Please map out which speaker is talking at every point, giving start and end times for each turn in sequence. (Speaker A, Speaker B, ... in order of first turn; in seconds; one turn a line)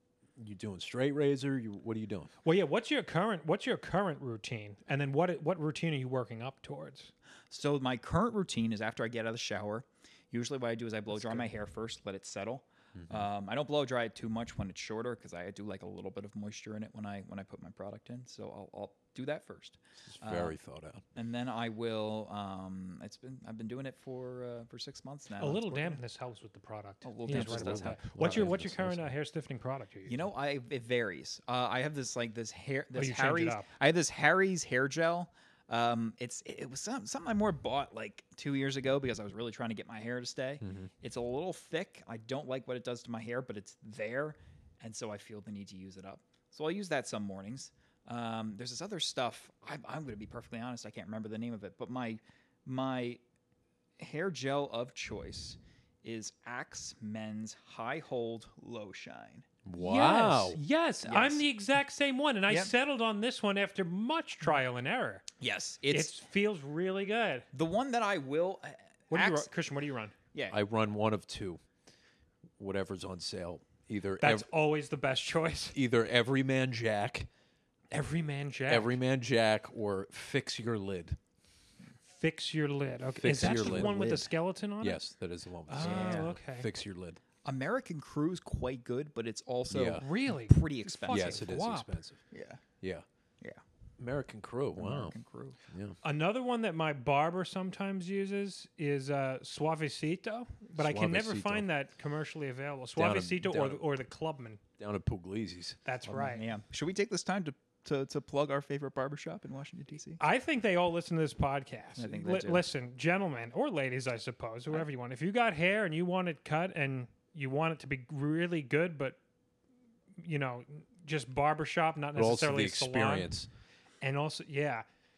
Speaker A: 0.4-2.3
Speaker B: 2.4-7.1
Speaker C: 7.5-20.6
Speaker A: 13.0-13.2
Speaker A: 20.1-21.0
Speaker C: 21.1-26.0
Speaker B: 25.4-30.1
Speaker C: 27.0-28.5
Speaker A: 27.3-29.1
Speaker C: 30.1-53.2
Speaker B: 32.9-33.7
Speaker A: 40.6-40.9
Speaker C: 54.0-59.5
Speaker A: 59.6-60.6
Speaker B: 59.8-65.3
Speaker C: 61.0-61.4
Speaker C: 62.5-62.7
Speaker C: 65.4-66.2
Speaker B: 65.9-67.5
Speaker C: 67.5-69.5
Speaker B: 69.1-70.1
Speaker C: 70.3-70.6
Speaker A: 70.5-71.6
Speaker A: 72.6-74.5
Speaker B: 74.2-75.8
Speaker A: 75.7-77.3
Speaker B: 77.9-78.9
Speaker A: 78.7-81.2
Speaker B: 82.1-85.0
Speaker A: 83.2-87.2
Speaker B: 85.7-86.7
Speaker C: 85.8-86.3
Speaker C: 87.4-91.5
Speaker A: 89.7-90.0
Speaker B: 90.0-91.9
Speaker A: 91.1-92.2
Speaker C: 92.3-92.6
Speaker A: 94.0-95.2
Speaker C: 94.8-95.6
Speaker A: 95.7-96.0
Speaker B: 96.0-104.6
Speaker A: 100.7-101.7
Speaker A: 103.0-103.8
Speaker A: 104.8-105.8
Speaker B: 105.8-106.4
Speaker C: 106.0-110.2
Speaker B: 110.2-119.2
Speaker C: 112.0-112.6
Speaker B: 120.2-123.3
Speaker A: 122.2-123.5
Speaker B: 124.0-124.8